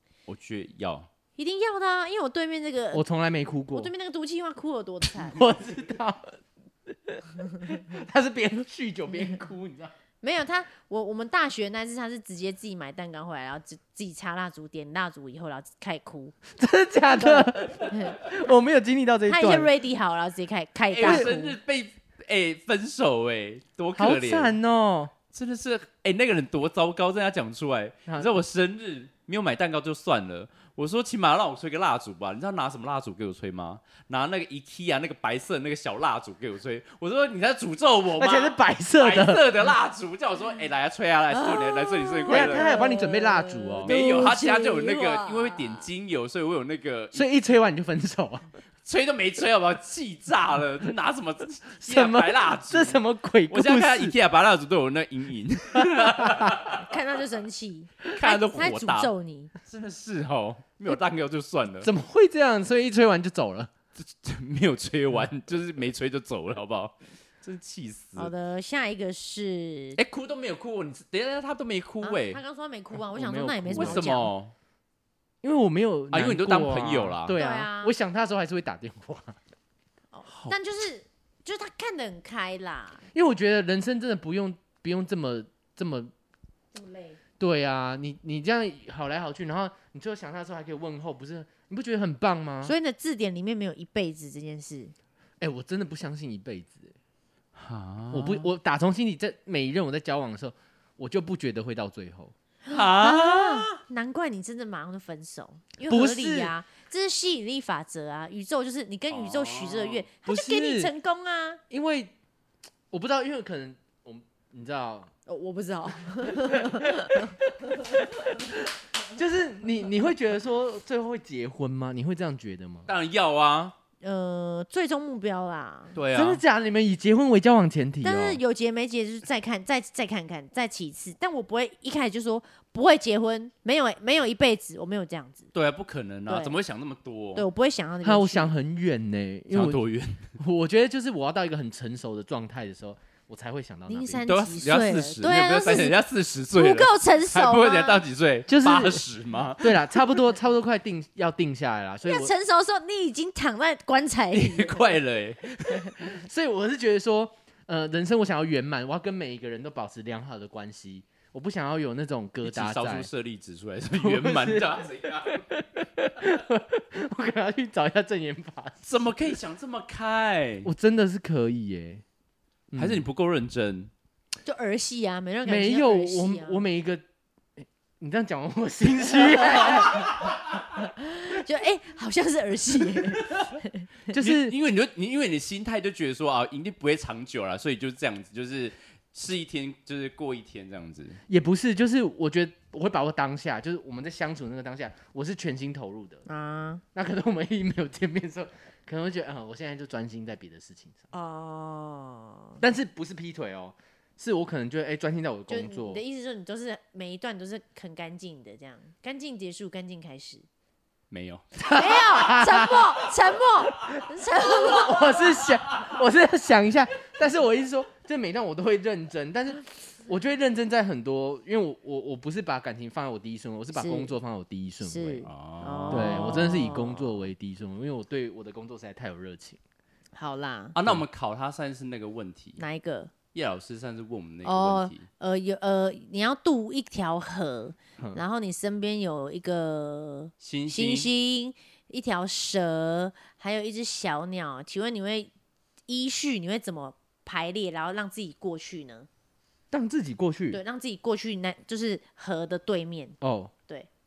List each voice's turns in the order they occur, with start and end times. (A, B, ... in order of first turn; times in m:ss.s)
0:00.3-0:01.1 A
0:01.4-0:03.0 B
0:02.9-0:03.9 C
0:03.7-0:05.4 B
0:05.2-0:09.9 C
0:10.2-0:16.4 B
0:16.5-0:19.7 C
0:17.2-0:18.2 B
0:19.3-0:21.6 B
0:20.9-0:24.5 A
0:21.0-0:21.3 C
0:24.0-0:25.1 C
0:25.3-0:42.7 A
0:38.2-0:39.6 C
0:41.3-0:45.9 B
0:42.3-0:44.1 C
0:43.8-0:47.2 A
0:47.1-0:48.5 C
0:48.9-0:56.9 A
0:51.8-0:54.2 C
0:55.7-0:56.8 C
0:56.7-0:59.5 B
0:58.1-0:59.1 A
0:59.6-1:01.9 A
1:01.8-1:03.7 C
1:04.0-1:08.3 A
1:08.2-1:10.0 B
1:10.0-1:12.4 A
1:12.0-1:14.3 B
1:13.1-1:14.1 C
1:13.8-1:14.5 A
1:15.4-1:19.4 C
1:16.1-1:17.4 A
1:17.3-1:18.0 B
1:20.1-1:23.0 B
1:20.3-1:20.6 A
1:23.1-1:26.1 C
1:26.7-1:27.2 B
1:27.4-1:32.8 C
1:32.6-1:34.9 B
1:35.4-1:37.0 C
1:37.6-1:38.5 A
1:38.1-1:42.3 C
1:42.7-1:43.8 A
1:42.7-1:51.6 B
1:45.9-1:46.5 C
1:49.1-1:50.0 A
1:50.3-1:50.9 C
1:51.7-1:52.1 C
1:52.9-1:55.1 C
1:55.3-1:57.3 B
1:56.3-2:02.9 C
2:02.9-2:03.8 A
2:04.0-2:06.0 B
2:05.9-2:06.4 A
2:06.1-2:08.4 C
2:08.0-2:15.5 B
2:15.5-2:17.5 A
2:16.3-2:16.5 B
2:17.4-2:18.5 B
2:18.0-2:19.8 C
2:19.5-2:20.3 A
2:20.4-2:24.2 C
2:23.9-2:26.0 B
2:24.3-2:29.8 A
2:26.5-2:28.0 B
2:28.5-2:29.0 C
2:29.6-2:32.3 C
2:32.0-2:35.0 B
2:34.3-2:36.1 A
2:36.0-2:43.1 C
2:42.4-2:45.4 A
2:43.9-2:48.8 C
2:48.8-2:50.7 A
2:50.6-2:52.0 C
2:52.7-2:53.0 C
2:52.8-2:53.9 A
2:54.4-2:56.6 B
2:55.4-2:57.0 C
2:57.6-3:00.3 C
2:59.3-3:00.2 B
3:00.8-3:03.9 B
3:04.1-3:04.6 C
3:04.1-3:11.2 A
3:11.3-3:16.2 C
3:16.3-3:16.8 B
3:17.0-3:21.0 C
3:21.1-3:22.6 B
3:22.6-3:26.0 C
3:25.5-3:30.4 B
3:31.1-3:31.4 A
3:31.6-3:33.0 C
3:31.7-3:35.4 B
3:34.4-3:45.3 C
3:43.7-3:44.1 B
3:44.8-3:47.0 B
3:45.3-3:46.4 A
3:45.9-3:49.6 C
3:50.2-3:50.8 B
3:50.8-3:52.6 A
3:52.6-3:53.1 B
3:53.3-3:55.1 A
3:54.4-4:05.3 B
4:00.4-4:01.1 A
4:05.9-4:09.1 B
4:09.7-4:10.6 C
4:10.5-4:13.2 B
4:13.2-4:13.5 C